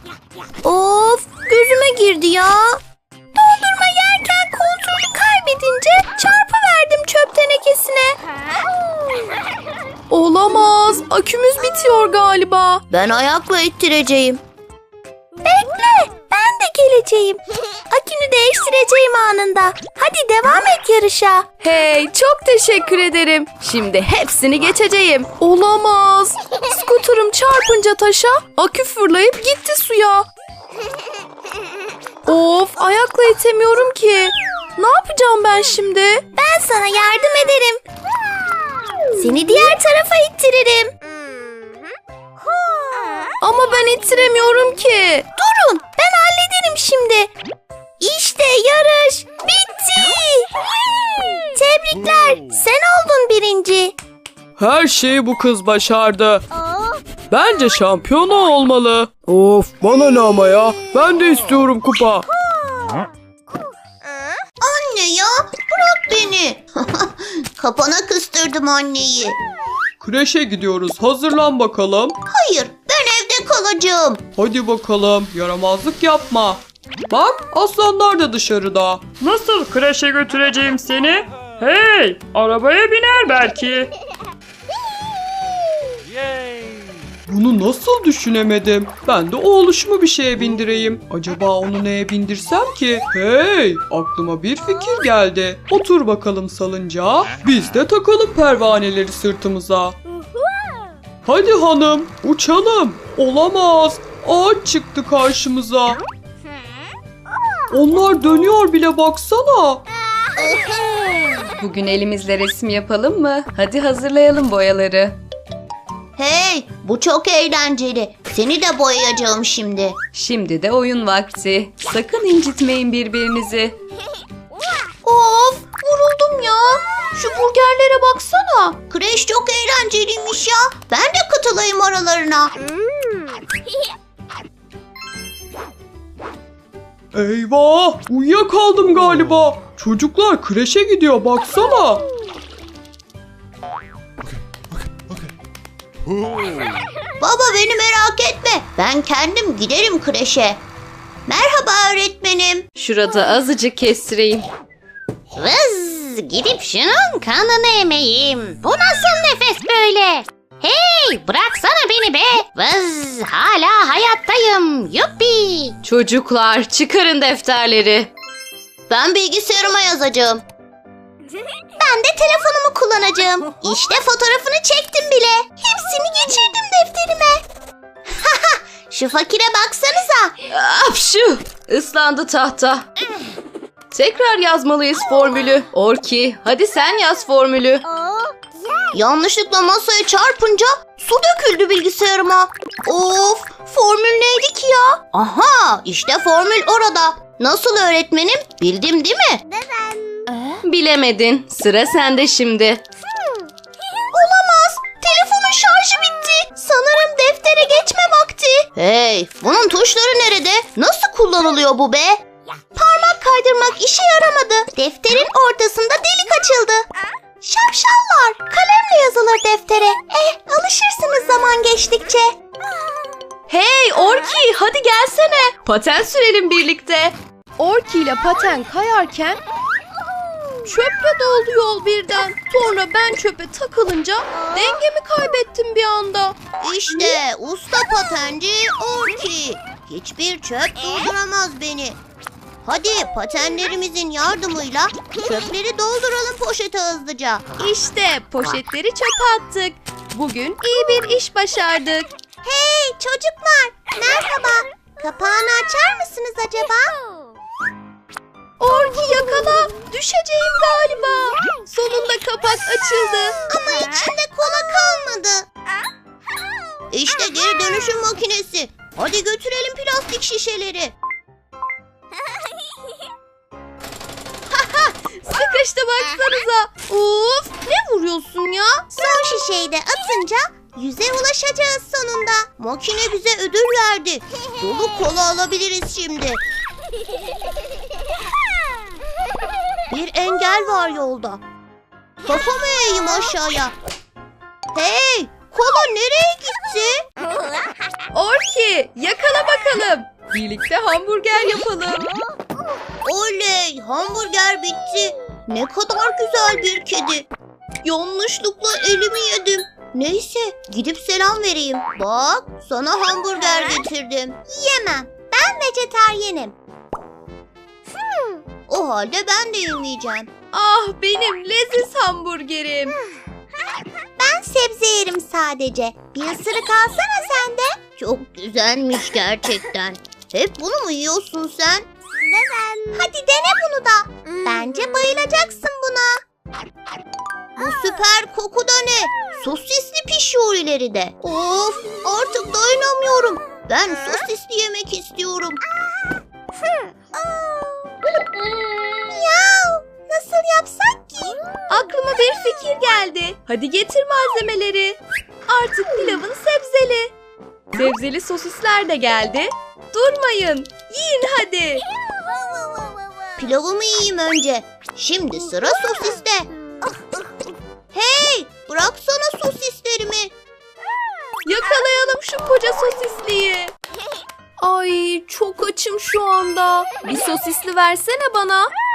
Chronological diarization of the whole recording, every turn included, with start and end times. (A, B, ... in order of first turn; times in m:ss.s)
0:00.6-0:02.8 A
0:03.6-0:08.2 B
0:04.1-0:04.6 A
0:10.1-0:12.8 B
0:12.9-0:14.4 A
0:15.5-0:17.4 A
0:17.9-0:21.4 A
0:21.6-0:30.3 B
0:32.3-0:36.3 B
0:36.4-0:37.8 A
0:39.2-0:40.9 A
0:43.4-0:45.3 B
0:45.4-0:47.3 A
0:48.0-0:50.5 A
0:51.6-0:53.9 A
0:54.6-0:56.4 C
0:57.3-1:02.3 C
1:04.6-1:09.4 A
1:10.0-1:12.2 C
1:12.3-1:14.2 A
1:14.4-1:19.1 C
1:19.2-1:23.9 D
1:27.3-1:40.0 C
1:41.2-1:46.0 C
1:47.7-1:49.8 C
1:50.4-1:51.5 A
1:51.6-1:55.2 B
1:56.2-2:00.0 A
2:00.2-2:03.7 B
2:05.0-2:08.8 B
2:08.9-2:12.5 A
2:17.1-2:22.0 C
2:27.2-2:30.6 A
2:31.3-2:32.7 A
2:32.8-2:34.5 B
2:35.4-2:45.8 A
2:45.8-2:48.1 B
2:48.9-2:50.4 A
2:51.8-2:57.4 A
2:58.2-3:00.4 A
3:00.5-3:02.8 B
3:03.9-3:07.8 B
3:08.9-3:20.6 A
3:20.7-3:22.8 B
3:24.1-3:28.2 A
3:28.7-3:32.2 A
3:32.7-3:36.8 A
3:37.4-3:42.3 A
3:43.5-3:49.4 B
3:50.6-3:56.4 B
3:56.6-4:02.0 A
4:02.6-4:07.4 A
4:07.6-4:12.1 B
4:12.4-4:16.9 A
4:18.6-4:23.4 B
4:23.5-4:25.5 A
4:26.9-4:30.9 A
4:34.5-4:38.9 B
4:38.9-4:46.4 A
4:49.9-4:51.4 A
4:52.2-4:53.8 A
4:54.7-4:57.0 A
4:58.1-5:02.2 B
5:03.0-5:07.3 A
5:07.8-5:16.6 A
5:18.7-5:20.3 A
5:20.5-5:23.0 B
5:24.2-5:36.2 A
5:37.6-5:45.6 A
5:48.9-5:51.4 A
5:51.7-5:57.1 B
5:57.7-6:01.8 B
6:03.4-6:06.5 A
6:07.9-6:10.3 A
6:11.4-6:13.7 B
6:14.6-6:18.7 B